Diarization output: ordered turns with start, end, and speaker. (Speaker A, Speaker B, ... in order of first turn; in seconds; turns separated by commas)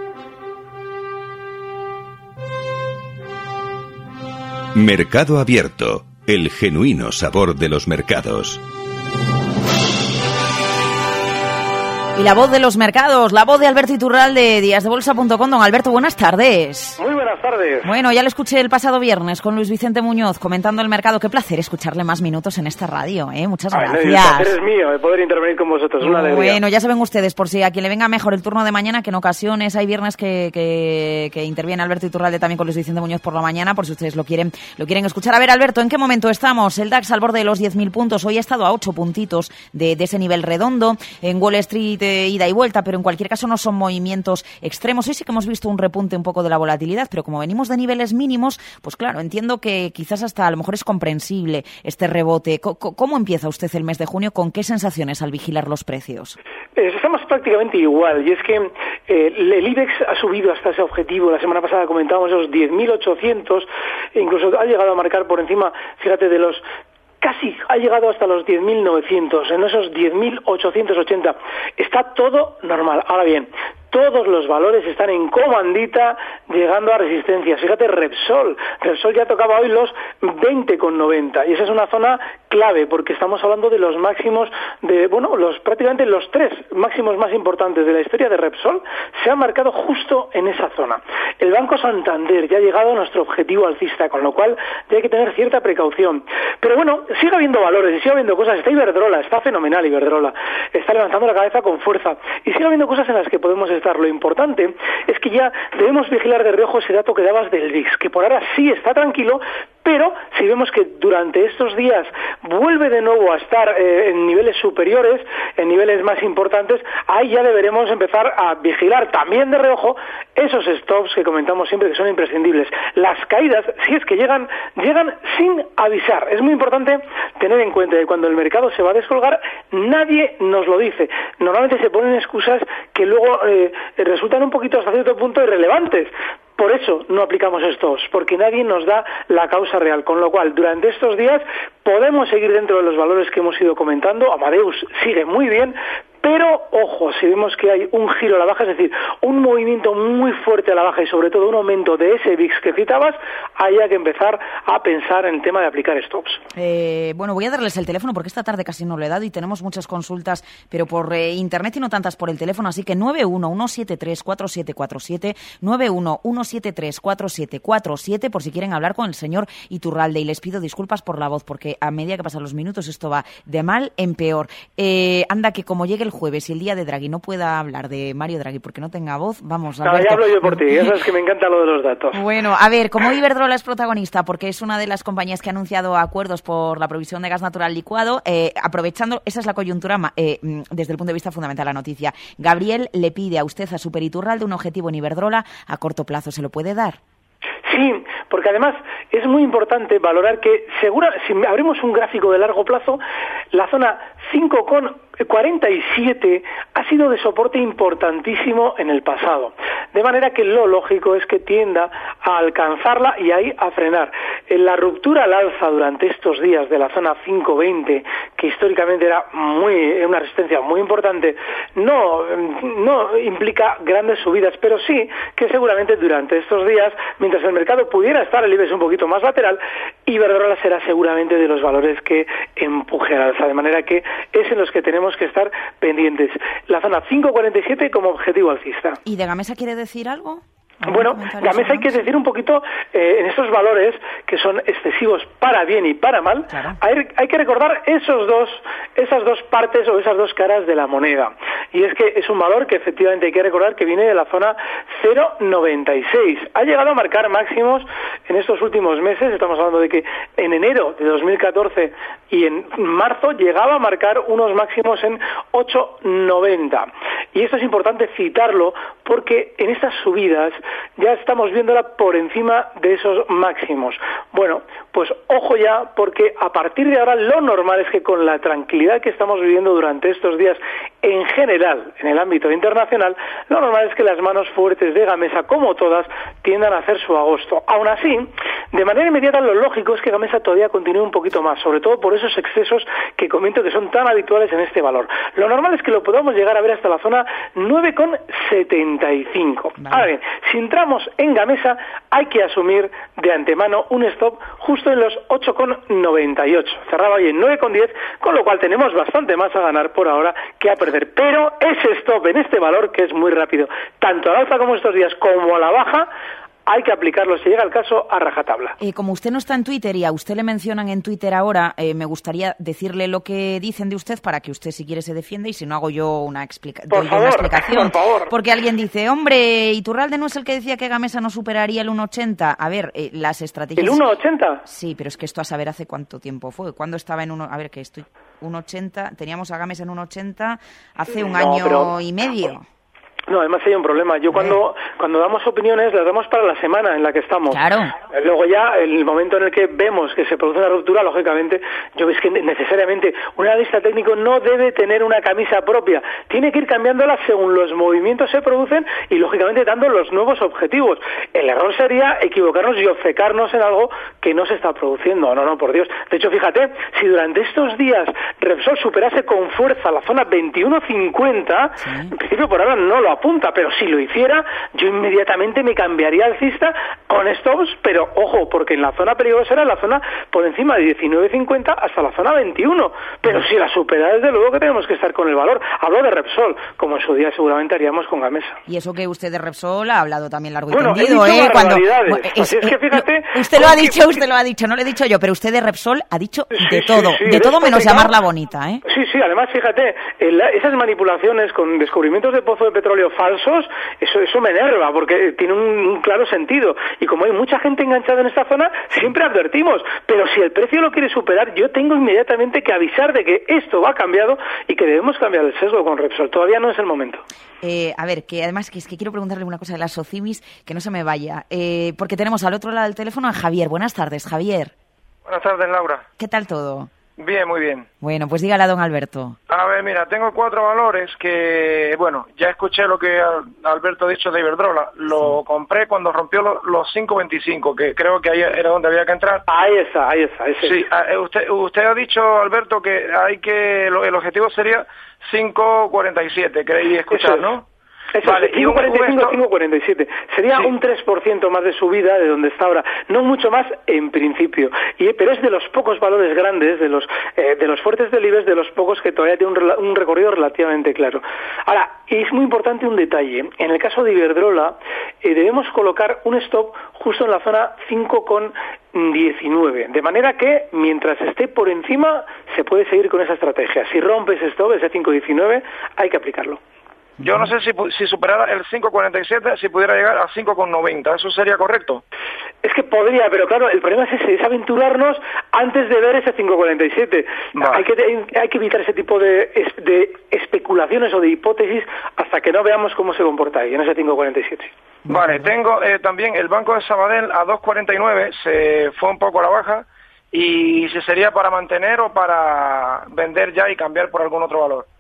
Speaker A: 4.8-8.6, Speaker B: 12.2-17.0, Speaker C: 17.0-17.9, Speaker B: 17.8-24.6, Speaker C: 23.7-26.6, Speaker B: 26.0-56.4, Speaker C: 56.8-66.7, Speaker C: 67.2-156.4, Speaker B: 156.6-180.9, Speaker C: 179.8-182.2, Speaker B: 182.1-197.0, Speaker C: 197.7-203.0, Speaker C: 203.5-239.0, Speaker B: 239.1-242.1, Speaker C: 240.9-316.1, Speaker B: 246.5-246.8, Speaker B: 299.8-300.1, Speaker C: 316.7-318.8, Speaker B: 318.8-334.0, Speaker C: 326.9-328.3, Speaker C: 333.8-334.6, Speaker B: 334.6-342.7, Speaker C: 341.2-341.9, Speaker C: 343.3-388.6, Speaker B: 347.5-347.9, Speaker B: 371.8-372.1, Speaker B: 388.7-398.8, Speaker C: 390.7-394.2, Speaker C: 396.5-398.1, Speaker C: 398.9-417.2, Speaker B: 417.6-424.7, Speaker D: 425.3-426.1, Speaker B: 426.2-426.9, Speaker D: 427.2-427.9, Speaker B: 428.0-429.4, Speaker D: 429.5-439.4, Speaker C: 439.5-440.8, Speaker D: 440.6-447.7, Speaker C: 447.1-447.5, Speaker C: 448.1-476.6, Speaker D: 448.2-449.4, Speaker B: 477.2-477.5, Speaker D: 477.2-482.0, Speaker C: 482.6-494.7, Speaker D: 487.6-487.9, Speaker B: 495.1-495.5, Speaker D: 495.1-504.9